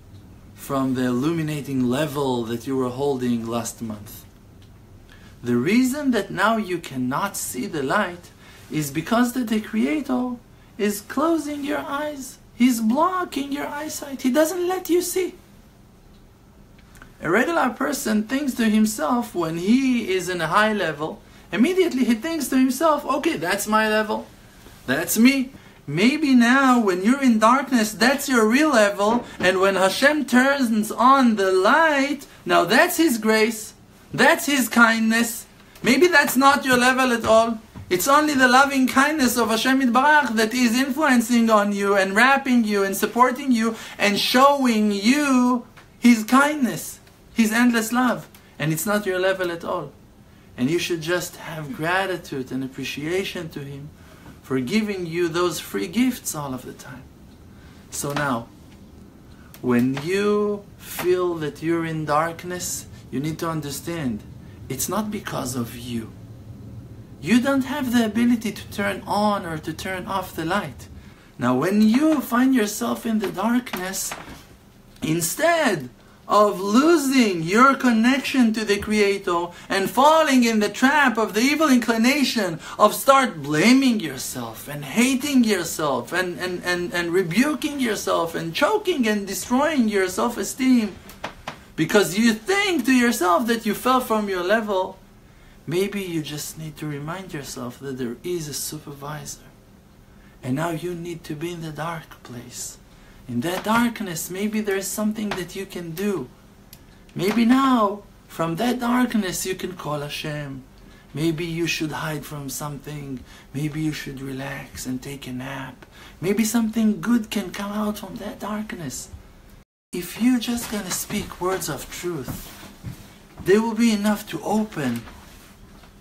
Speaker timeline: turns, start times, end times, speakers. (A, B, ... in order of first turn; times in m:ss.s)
0:00.6-0:04.3 A
0:05.4-0:15.4 A
0:17.2-0:24.3 A
0:24.9-0:49.9 A
0:50.6-0:57.1 A
0:57.9-0:58.5 A
0:59.6-1:06.2 A
1:07.2-1:14.2 A
1:15.0-1:31.0 A
1:31.8-1:35.0 A
1:35.7-1:39.5 A
1:40.4-1:46.3 A
1:47.2-1:59.1 A
1:59.9-2:02.5 A
2:03.4-2:05.1 A